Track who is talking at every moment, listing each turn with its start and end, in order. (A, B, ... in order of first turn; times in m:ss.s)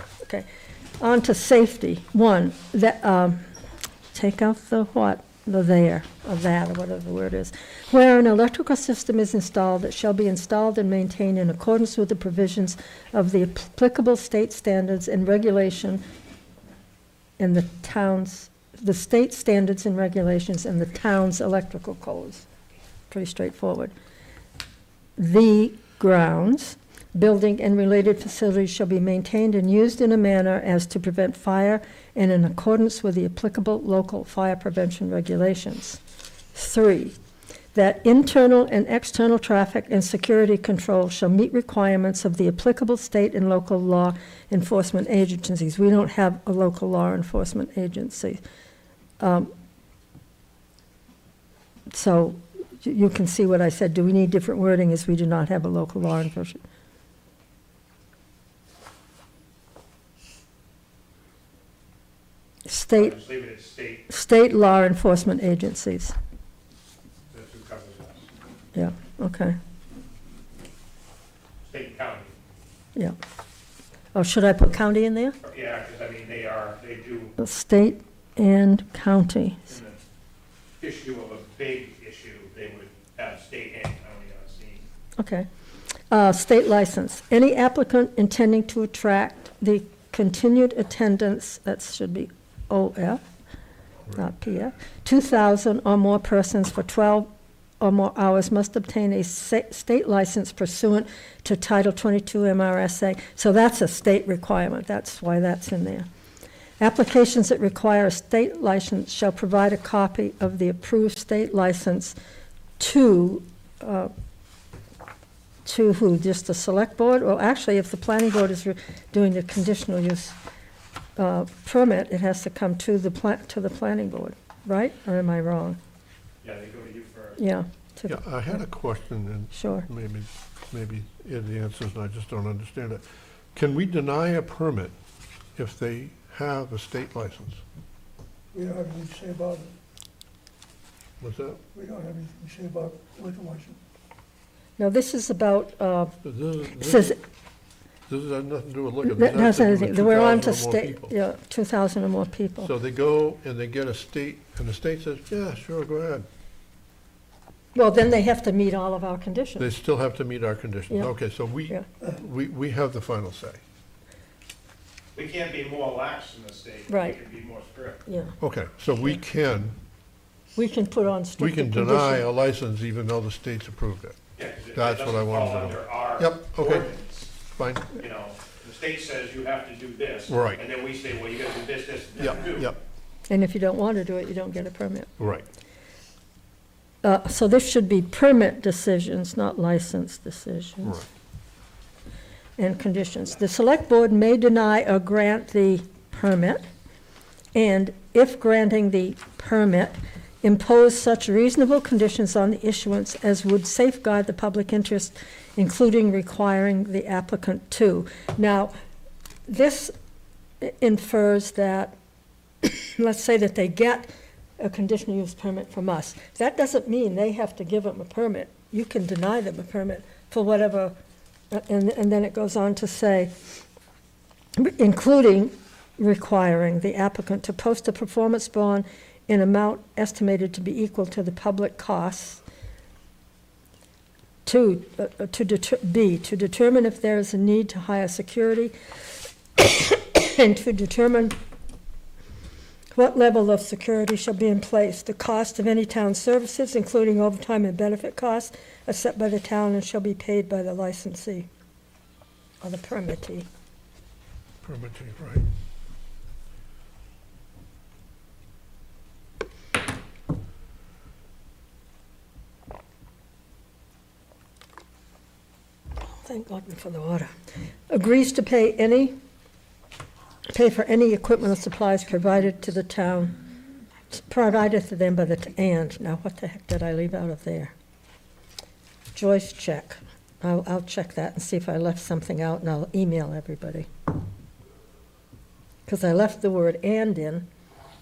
0:01.0-0:03.4 A
0:04.1-0:16.0 A
0:17.4-0:22.4 A
0:23.1-0:23.9 A
0:25.2-0:36.0 A
0:36.5-0:37.2 A
0:37.8-0:48.4 A
0:49.2-0:49.5 A
0:51.9-0:56.6 A
1:02.7-1:03.2 A
1:03.0-1:04.0 B
1:04.1-1:06.2 A
1:07.3-1:08.3 B
1:08.7-1:09.6 A
1:11.6-1:12.4 B
1:14.1-1:15.4 A
1:15.4-1:17.3 B
1:17.4-1:19.7 A
1:19.7-1:20.0 B
1:20.8-1:24.9 B
1:25.2-1:25.5 A
1:26.1-1:33.2 A
1:34.1-1:46.1 A
1:46.8-1:52.2 A
1:52.8-1:54.1 A
1:55.6-2:00.4 A
2:01.2-2:05.8 A
2:06.4-2:07.4 B
2:07.4-2:08.2 A
2:08.1-2:13.0 C
2:09.5-2:09.9 A
2:13.5-2:14.9 C
2:15.6-2:17.6 C
2:18.5-2:19.7 D
2:21.2-2:21.6 C
2:21.7-2:23.8 D
2:24.8-2:26.2 A
2:26.2-2:27.2 C
2:26.8-2:27.2 A
2:28.1-2:31.1 C
2:29.0-2:32.7 A
2:32.6-2:36.3 C
2:37.8-2:39.7 A
2:39.6-2:43.6 C
2:45.2-2:48.0 B
2:46.9-2:47.2 A
2:48.1-2:48.4 A
2:48.4-2:49.8 C
2:50.6-2:52.3 A
2:51.4-2:54.2 C
2:54.4-2:57.3 B
2:54.8-2:56.9 C
2:57.5-2:58.0 C
2:57.9-3:02.7 B
3:00.3-3:00.6 C
3:02.2-3:02.8 C
3:03.3-3:05.1 A
3:05.2-3:05.4 C
3:07.0-3:11.0 A
3:12.6-3:16.6 A
3:17.6-3:28.7 A
3:29.5-3:29.9 A
3:30.6-3:31.9 A
3:32.6-3:41.0 A
3:41.5-3:43.3 A
3:44.6-3:52.4 A
3:54.4-3:58.7 A
3:59.6-4:01.4 A
4:02.9-4:11.5 A
4:12.6-4:13.5 A
4:14.6-4:15.5 C
4:26.0-4:27.3 A
4:27.9-4:29.2 A
4:30.5-4:33.4 A
4:34.1-4:37.7 A
4:39.1-4:43.9 A
4:45.9-4:47.5 A